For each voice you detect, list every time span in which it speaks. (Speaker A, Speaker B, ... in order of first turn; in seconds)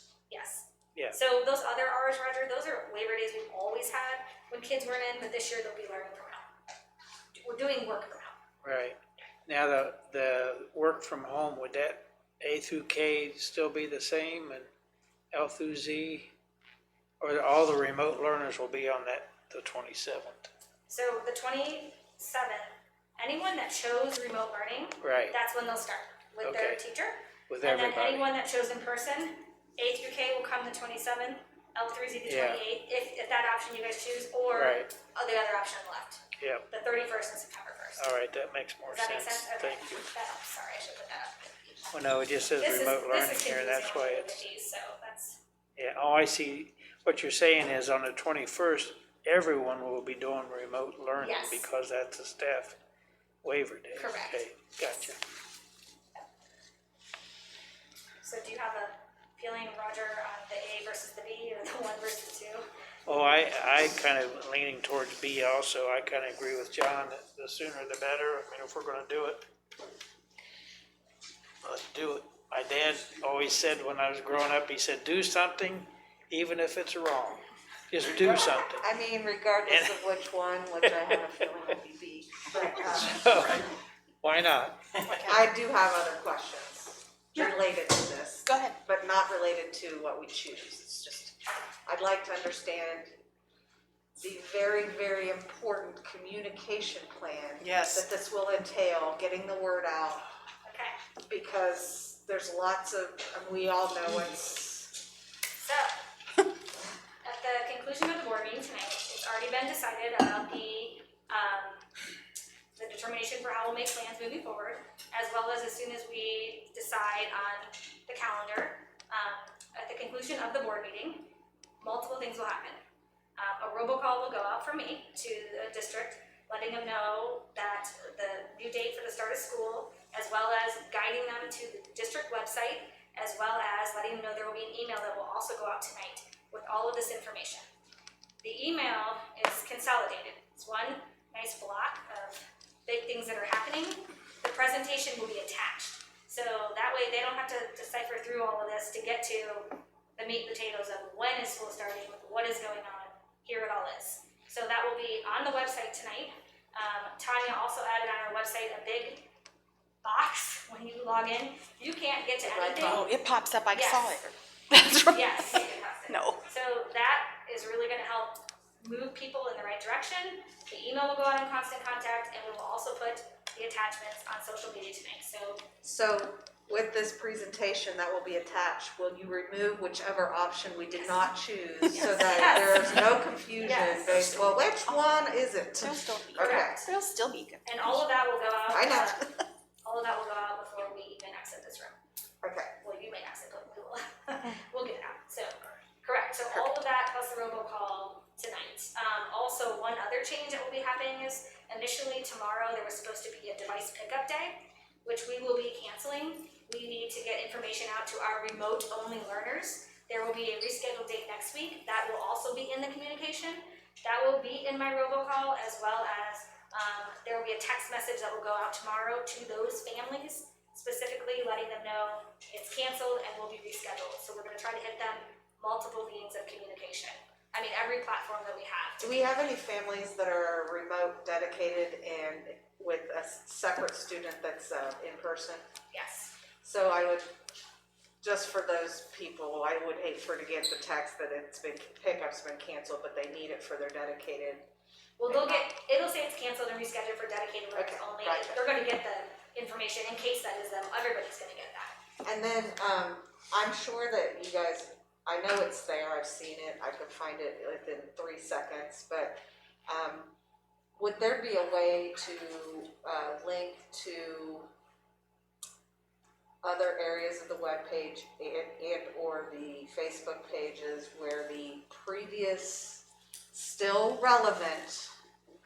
Speaker A: 0.3-6.5, 7.4-8.4, 20.9-38.0, 38.9-41.9, 42.6-45.4, 51.2-51.7, 53.9-54.9, 58.2-62.6, 100.6-101.0, 105.5-105.9, 107.2-111.8, 112.8-122.8, 123.4-137.6, 138.4-159.2, 160.0-163.1, 163.7-164.2, 165.1-175.7, 181.9-183.0, 183.6-184.1, 186.4-186.9, 187.6-189.3, 189.8-192.0, 192.8-229.1, 235.9-236.3, 245.2-251.9
Speaker B: 8.6-14.7, 15.3-16.3, 17.2-20.5, 25.0-25.4, 26.4-26.8, 27.5-28.3, 32.2-32.6, 34.5-34.9, 36.4-36.6, 38.0-40.1, 41.9-44.4, 45.8-52.8, 53.4-55.2, 63.0-69.4, 71.6-78.8, 79.7-80.1, 82.9-85.0
Speaker C: 78.8-83.3, 85.2-93.1, 94.2-100.2, 101.2-105.0, 162.4-163.1, 175.8-186.8, 188.7-189.2, 192.4-192.7, 229.0-235.6, 236.6-237.3, 238.2-244.6, 245.3-245.6, 247.7-248.6, 252.2-260.3, 261.0-264.7, 266.6-275.1
Speaker D: 85.0-85.5, 88.4-88.8, 97.6-98.0, 162.8-166.4, 181.8-182.4, 184.1-185.2, 185.8-188.0